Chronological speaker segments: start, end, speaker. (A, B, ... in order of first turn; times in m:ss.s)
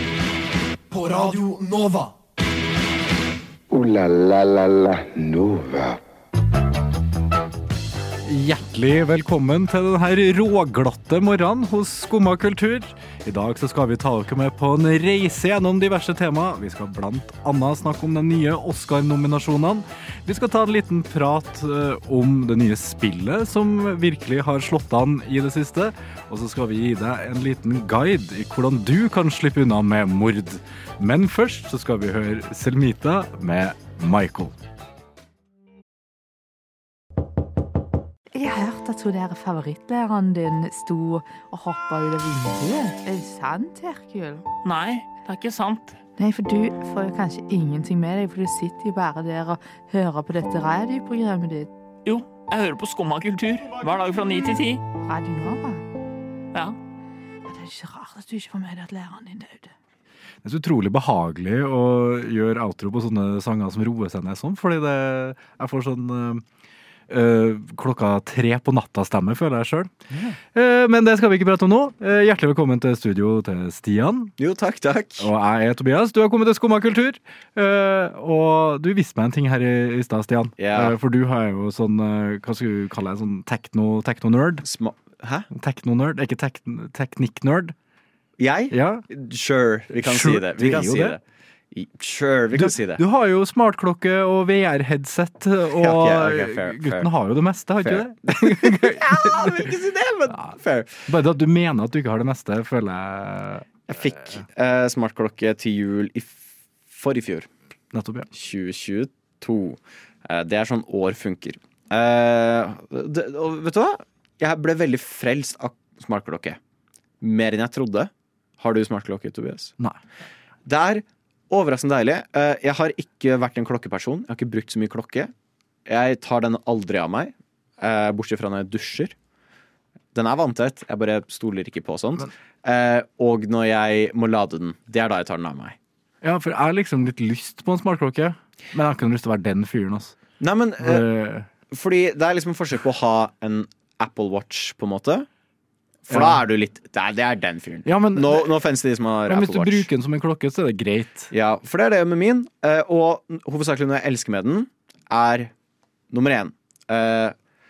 0:03.7-0:06.0 A
0:08.2-0:34.6 B
0:38.3-0:44.4 C
0:44.6-0:46.0 D
0:46.2-0:51.7 C
0:52.0-0:54.8 D
0:55.0-0:55.8 C
0:57.5-0:59.7 C
1:00.4-1:06.4 B
1:07.1-1:09.9 B
1:10.1-1:10.4 E
1:10.5-1:14.3 B
1:14.4-1:15.3 E
1:15.2-1:24.6 B
1:20.6-1:20.9 E
1:24.6-1:25.5 E
1:25.5-1:27.7 B
1:28.4-1:31.2 E
1:28.7-1:29.0 B
1:30.0-1:31.2 B
1:31.7-1:33.0 E
1:32.5-1:39.8 B
1:35.8-1:37.1 E
1:37.8-1:41.0 E
1:40.3-1:40.5 B
1:41.1-1:43.6 B
1:43.9-1:46.4 E
1:46.9-1:47.5 E
1:47.9-1:48.3 B
1:48.3-1:56.6 E
1:57.2-1:59.7 E
2:00.6-2:05.3 E
2:05.9-2:09.1 E
2:10.1-2:15.8 E
2:16.2-2:20.1 B
2:20.4-2:21.1 E
2:20.8-2:21.5 B
2:21.7-2:25.3 E
2:26.1-2:29.9 E
2:26.1-2:26.4 B
2:27.8-2:28.5 B
2:29.3-2:31.3 B
2:31.3-2:35.5 E
2:36.1-2:37.3 E